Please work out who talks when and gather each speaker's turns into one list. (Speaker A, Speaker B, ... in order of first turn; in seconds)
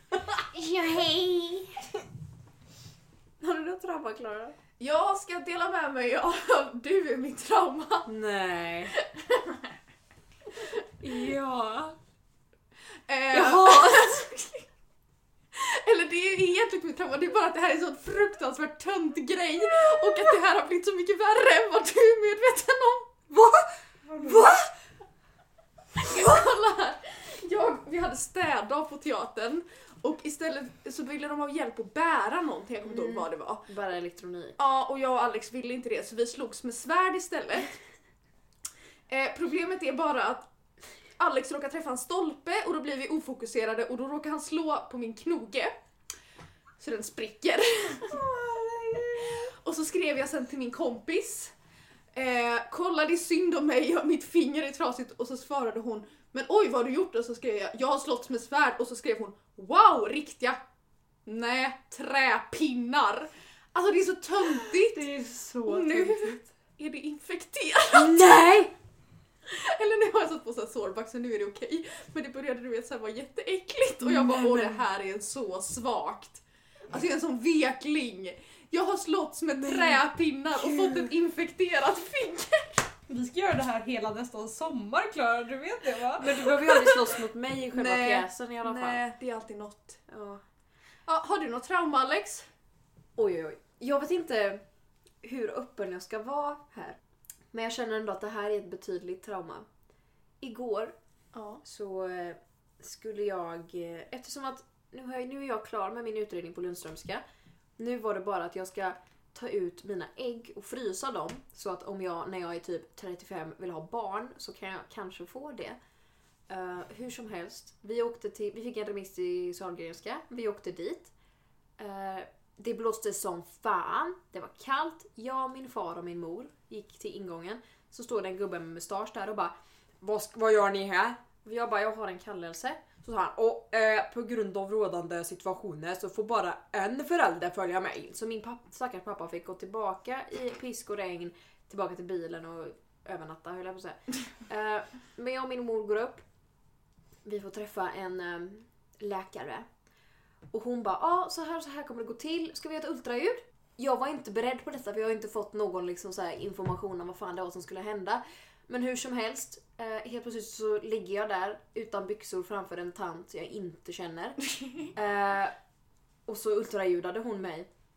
Speaker A: 0.3-1.9, 3.4-4.5, 8.1-8.9, 11.0-11.9, 13.3-14.3, 23.3-24.7, 32.9-34.6, 48.1-49.5, 64.7-66.4, 67.9-68.7, 74.0-74.8, 79.6-80.0, 80.6-81.1, 86.1-89.0, 90.1-90.4, 93.2-94.6, 95.2-97.0, 97.5-99.7, 100.4-100.9, 101.6-107.2, 107.8-115.8, 116.5-121.1, 121.8-146.2, 147.2-149.7, 150.5-165.5, 166.3-167.7
Speaker B: 4.8-8.1, 8.9-9.7, 13.1-14.7, 15.5-23.1, 24.1-24.6, 25.9-33.6, 34.6-37.8, 39.1-40.5, 41.2-45.7, 46.8-48.2, 49.2-51.5, 52.1-60.6, 61.2-65.1, 65.7-68.2, 69.5-83.0, 87.7-90.0, 91.1-92.5, 101.3-101.6
Speaker C: 83.1-86.9